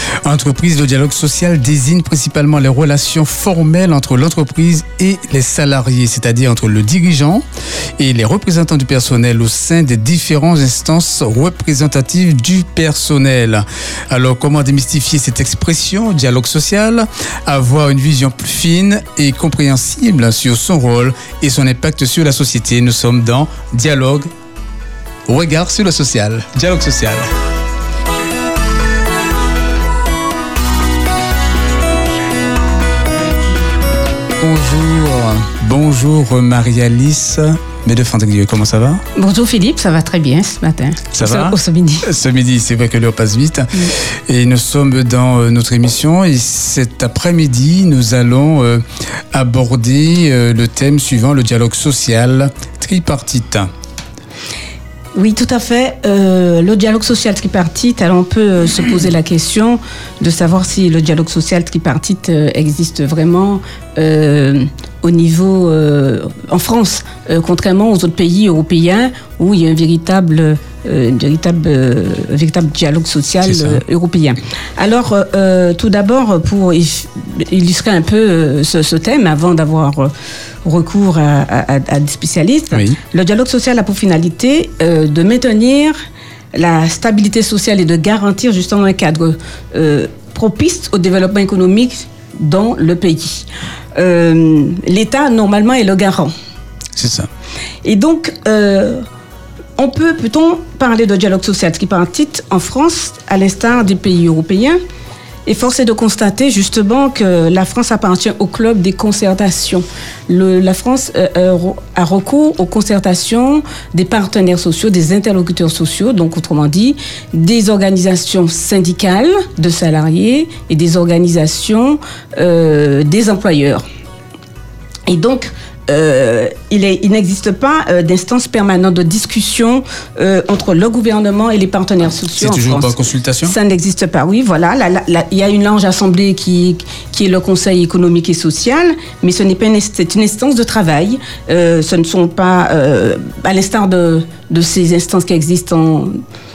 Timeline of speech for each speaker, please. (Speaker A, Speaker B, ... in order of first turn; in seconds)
Speaker A: 0.2-7.5, 8.0-24.3, 25.3-27.2, 34.4-39.0, 41.1-53.7, 73.4-73.8, 82.7-83.0, 97.0-97.3, 132.4-133.6
Speaker B: 39.1-42.1, 55.1-80.1, 80.7-86.0, 86.5-96.3, 97.8-99.0, 99.8-104.8, 105.5-123.8, 125.1-132.9, 133.4-146.1